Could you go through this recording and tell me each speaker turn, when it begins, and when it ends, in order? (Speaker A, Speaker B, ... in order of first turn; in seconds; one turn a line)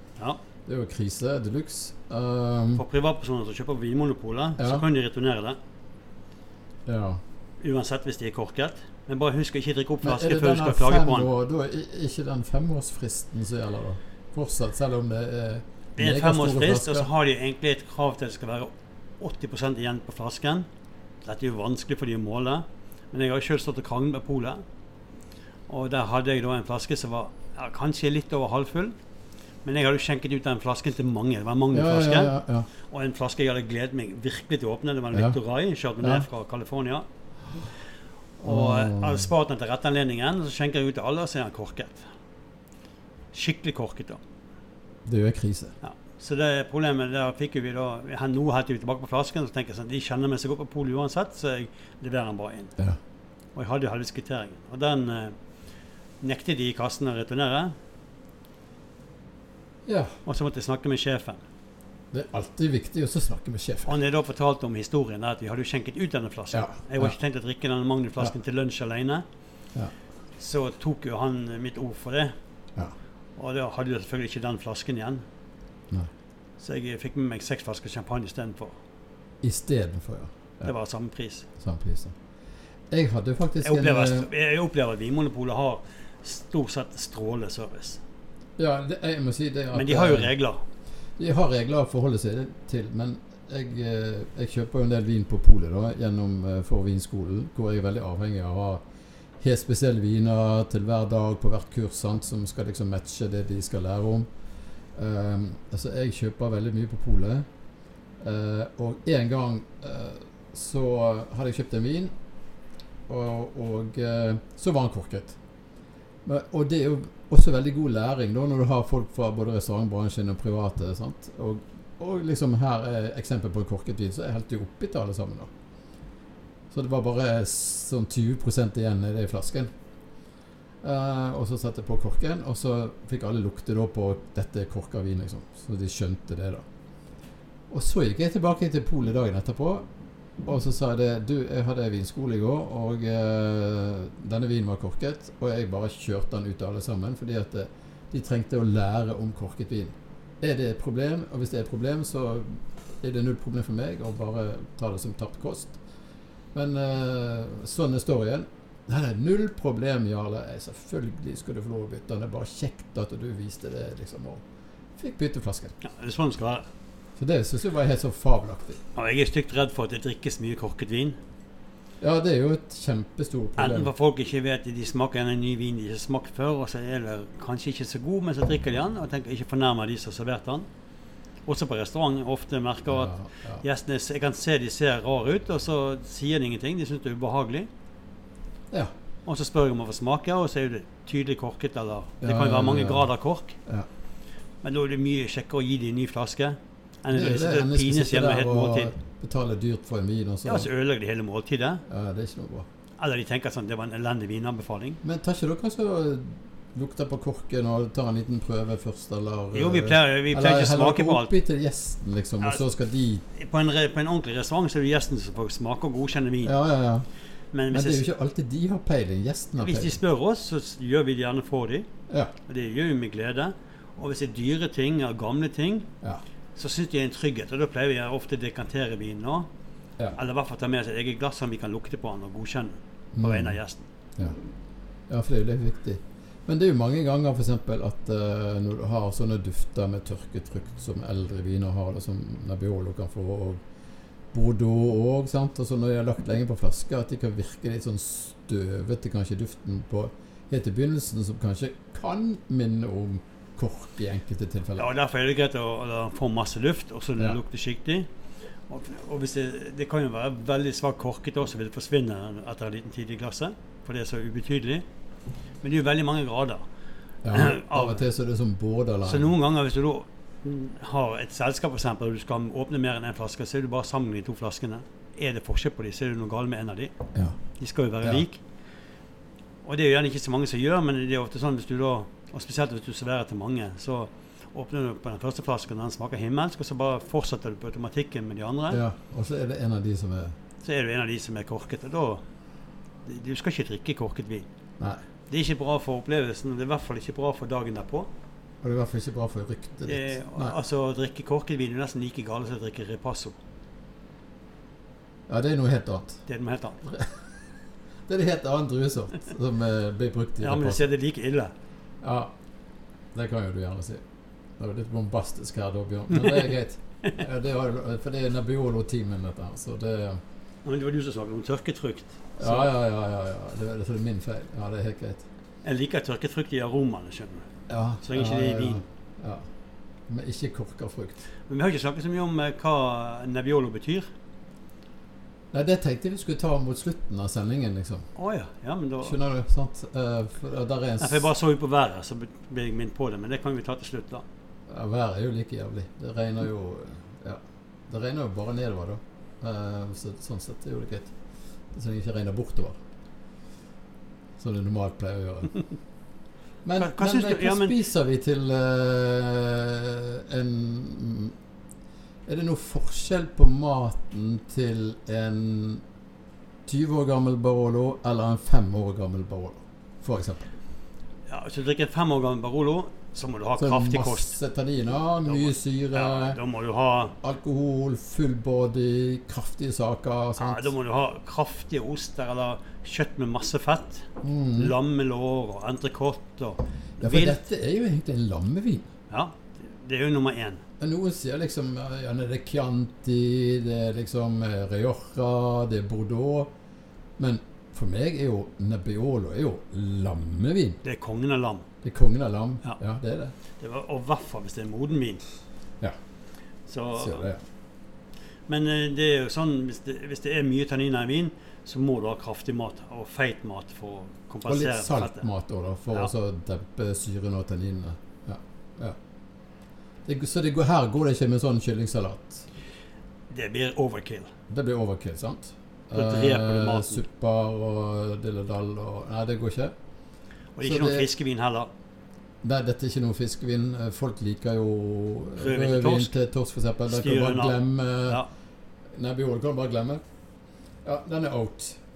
Speaker A: 0.2-0.4
Speaker B: 0.7-2.8
Speaker A: 2.8-5.6
Speaker B: 4.6-4.8
Speaker B: 6.9-7.2
Speaker A: 7.6-11.3
Speaker B: 10.0-17.1
Speaker A: 16.0-20.7
Speaker A: 21.2-24.6
Speaker A: 25.7-28.9
Speaker A: 29.6-32.3
Speaker B: 31.7-32.7
Speaker A: 32.9-37.1
Speaker B: 38.4-39.3
Speaker A: 38.4-42.1
Speaker A: 43.3-44.2
Speaker B: 45.1-45.8
Speaker A: 45.8-52.8
Speaker A: 53.5-55.4
Speaker A: 56.2-57.8
Speaker B: 59.9-60.2
Speaker A: 60.2-61.4
Speaker B: 62.1-64.0
Speaker A: 63.9-69.2
Speaker B: 66.5-67.2
Speaker A: 70.4-72.3
Speaker A: 73.4-75.2
Speaker A: 76.6-78.8
Speaker B: 79.4-80.7
Speaker A: 80.6-81.5
Speaker B: 81.6-82.2
Speaker B: 82.9-84.3
Speaker A: 83.6-88.0
Speaker B: 88.6-90.3
Speaker A: 89.7-90.6
Speaker B: 91.2-98.8
Speaker B: 99.4-104.3
Speaker B: 105.0-107.5
Speaker B: 108.2-112.1
Speaker B: 113.1-115.4
Speaker B: 116.2-125.5
Speaker B: 126.7-129.7
Speaker B: 130.8-136.6
Speaker B: 137.7-139.9
Speaker B: 140.4-155.8
Speaker B: 156.5-164.4
Speaker B: 165.0-165.8
Speaker A: 165.8-166.7
Speaker B: 167.2-168.8
Speaker A: 168.9-171.2
Speaker B: 172.0-173.9
Speaker A: 173.6-180.7
Speaker A: 181.4-187.7
Speaker B: 182.9-183.6
Speaker A: 189.3-193.6
Speaker B: 192.2-193.1
Speaker A: 194.6-198.9
Speaker B: 197.1-200.7
Speaker A: 200.4-201.8
Speaker B: 201.9-202.7
Speaker A: 203.0-205.0
Speaker B: 205.0-213.2
Speaker A: 209.5-211.3
Speaker A: 213.3-216.6
Speaker B: 216.4-217.1
Speaker A: 217.5-218.1
Speaker B: 217.7-220.0
Speaker A: 219.6-221.9
Speaker A: 222.5-225.9
Speaker A: 226.6-229.5
Speaker A: 230.2-233.9
Speaker B: 233.2-233.6
Speaker B: 235.1-243.6
Speaker B: 244.3-254.9
Speaker A: 254.8-258.1
Speaker A: 258.7-264.9
Speaker A: 265.6-266.6
Speaker B: 267.2-269.3
Speaker A: 267.3-268.1
Speaker A: 269.0-276.9
Speaker A: 277.6-278.4
Speaker A: 279.6-288.8
Speaker B: 288.7-290.4
Speaker A: 290.6-292.2
Speaker A: 293.1-294.5
Speaker A: 295.3-298.1
Speaker B: 298.6-300.6
Speaker A: 299.9-303.4
Speaker B: 305.3-306.2
Speaker A: 306.3-306.8
Speaker B: 306.8-307.1
Speaker B: 308.1-310.9
Speaker A: 310.4-311.5
Speaker B: 312.0-312.3
Speaker B: 313.1-314.0
Speaker B: 314.6-320.2
Speaker A: 316.1-317.1
Speaker A: 320.6-322.7
Speaker B: 322.4-325.2
Speaker A: 325.6-327.5
Speaker B: 327.7-329.4
Speaker A: 328.0-328.8
Speaker B: 330.1-331.2
Speaker A: 331.5-334.1
Speaker B: 335.5-338.1
Speaker A: 338.1-339.2
Speaker B: 339.0-341.3
Speaker A: 341.0-344.2
Speaker B: 344.7-351.1
Speaker B: 351.7-352.8
Speaker B: 354.4-355.6
Speaker B: 356.6-361.4
Speaker A: 356.8-357.8
Speaker B: 362.3-365.8
Speaker B: 366.7-370.5
Speaker A: 371.3-374.4
Speaker B: 373.6-376.4
Speaker A: 375.3-377.2
Speaker B: 377.2-380.7
Speaker A: 380.4-387.4
Speaker B: 384.2-384.8
Speaker B: 387.0-388.9
Speaker A: 389.1-390.6
Speaker B: 390.8-396.5
Speaker B: 397.2-400.8
Speaker A: 400.8-401.7
Speaker B: 401.8-403.3
Speaker A: 403.6-405.2
Speaker A: 406.7-407.3
Speaker B: 406.9-407.4
Speaker A: 408.5-415.3
Speaker B: 414.4-419.0
Speaker B: 420.1-422.5
Speaker A: 423.3-424.3
Speaker B: 424.5-429.8
Speaker A: 425.9-427.0
Speaker A: 430.6-431.7
Speaker B: 430.6-431.1
Speaker B: 432.4-438.2
Speaker A: 435.4-436.1
Speaker A: 436.9-438.3
Speaker B: 438.9-440.0
Speaker B: 440.9-441.8